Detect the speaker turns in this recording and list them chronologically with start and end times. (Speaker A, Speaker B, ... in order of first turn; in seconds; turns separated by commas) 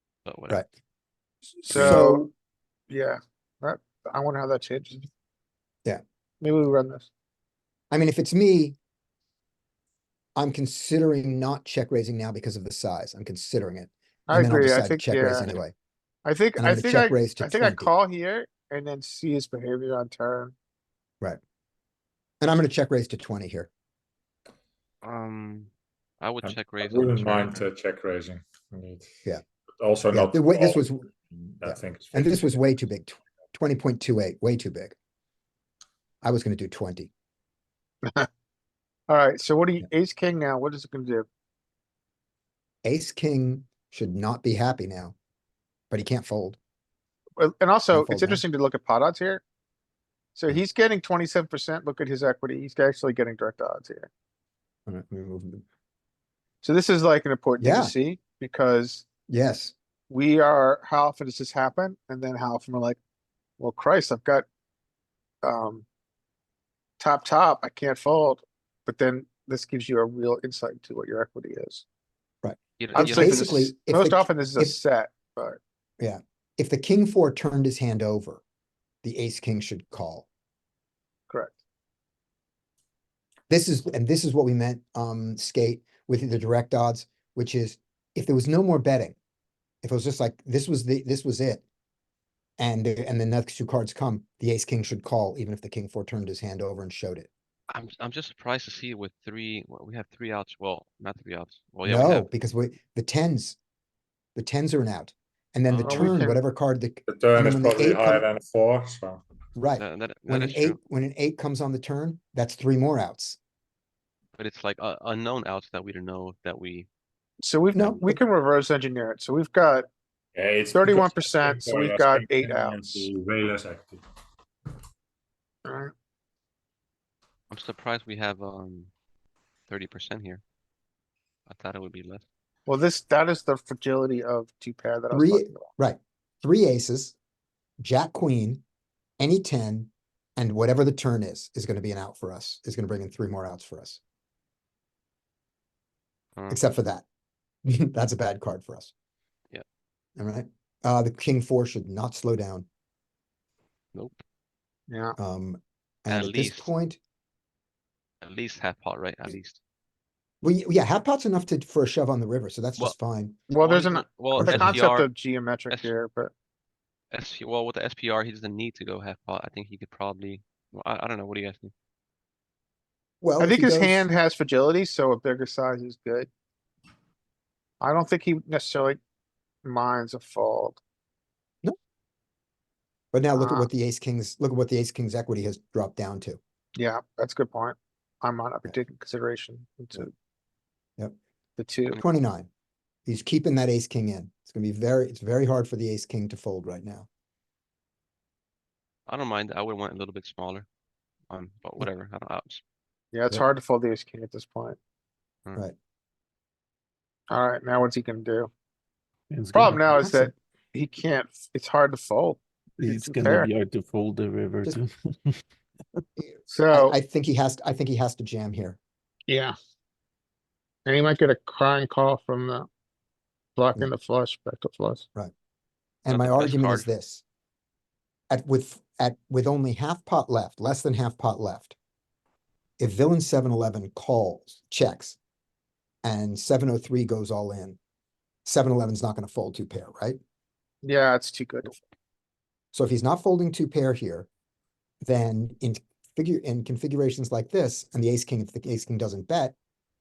Speaker A: 0.2-0.6, Speaker B: 1.6-2.3, Speaker C: 1.7-2.3, Speaker B: 2.9-5.1, Speaker B: 6.4-7.1, Speaker C: 7.9-8.8, Speaker C: 10.3-15.7, Speaker B: 14.3-15.6, Speaker B: 16.2-20.5, Speaker C: 16.6-17.9, Speaker C: 22.4-23.7, Speaker A: 25.0-25.7, Speaker A: 26.2-27.6, Speaker D: 26.8-29.2, Speaker D: 29.8-32.4, Speaker C: 30.1-31.0, Speaker C: 31.6-34.9, Speaker C: 36.2-37.1, Speaker B: 39.1-41.2, Speaker C: 42.8-45.1, Speaker C: 45.9-46.6, Speaker B: 47.4-49.4, Speaker C: 47.9-48.4, Speaker B: 50.4-54.1, Speaker C: 54.9-55.6, Speaker B: 56.6-59.1, Speaker C: 57.6-57.9, Speaker C: 59.3-59.7, Speaker B: 60.1-63.0, Speaker B: 63.6-64.4, Speaker B: 65.4-65.8, Speaker B: 67.0-71.8, Speaker C: 72.4-74.7, Speaker A: 72.8-73.5, Speaker B: 72.9-75.6, Speaker C: 76.0-78.4, Speaker C: 79.0-80.2, Speaker B: 81.3-81.5, Speaker C: 83.5-89.2, Speaker C: 89.8-91.6, Speaker C: 92.6-97.3, Speaker A: 97.7-102.3, Speaker C: 101.8-103.6, Speaker C: 104.3-108.2, Speaker A: 105.7-106.1, Speaker B: 105.8-106.4, Speaker D: 107.1-109.2, Speaker C: 109.5-113.4, Speaker A: 109.8-110.8, Speaker A: 114.4-116.9, Speaker B: 117.4-119.9, Speaker C: 117.7-118.2, Speaker D: 120.3-124.0, Speaker B: 120.7-123.1, Speaker B: 125.7-125.9, Speaker A: 127.5-128.9, Speaker A: 129.7-130.4, Speaker A: 131.5-132.2, Speaker B: 132.7-135.7, Speaker C: 135.1-137.2, Speaker C: 137.8-138.6, Speaker C: 139.2-144.0, Speaker A: 146.3-146.6, Speaker C: 146.5-147.0, Speaker C: 147.6-148.9, Speaker C: 150.2-152.7, Speaker A: 153.9-154.2, Speaker B: 154.9-155.2, Speaker C: 155.2-157.0, Speaker A: 156.1-156.7, Speaker A: 158.2-159.6, Speaker C: 160.4-163.4, Speaker B: 163.5-166.3, Speaker A: 163.6-165.1, Speaker C: 164.3-164.7, Speaker A: 167.1-171.7, Speaker C: 173.2-174.1, Speaker B: 173.4-176.3, Speaker B: 177.8-179.0, Speaker B: 179.6-180.8, Speaker C: 183.1-186.4, Speaker B: 183.3-183.7, Speaker B: 186.8-190.1, Speaker B: 191.6-192.0, Speaker C: 191.9-192.5, Speaker C: 193.1-197.1, Speaker A: 199.1-200.7, Speaker A: 201.3-202.6, Speaker B: 203.1-204.8, Speaker B: 207.3-208.5, Speaker E: 209.3-210.1, Speaker B: 209.5-213.5, Speaker C: 210.0-210.3, Speaker E: 212.8-215.4, Speaker C: 216.2-218.8, Speaker B: 216.5-216.9, Speaker B: 219.3-219.5, Speaker B: 220.8-222.7, Speaker B: 223.6-225.0, Speaker C: 226.0-227.2, Speaker A: 226.1-226.9, Speaker C: 228.3-231.7, Speaker C: 232.8-235.2, Speaker C: 236.0-237.8, Speaker C: 238.4-240.2, Speaker B: 240.8-241.8, Speaker C: 242.7-244.3, Speaker C: 245.0-249.6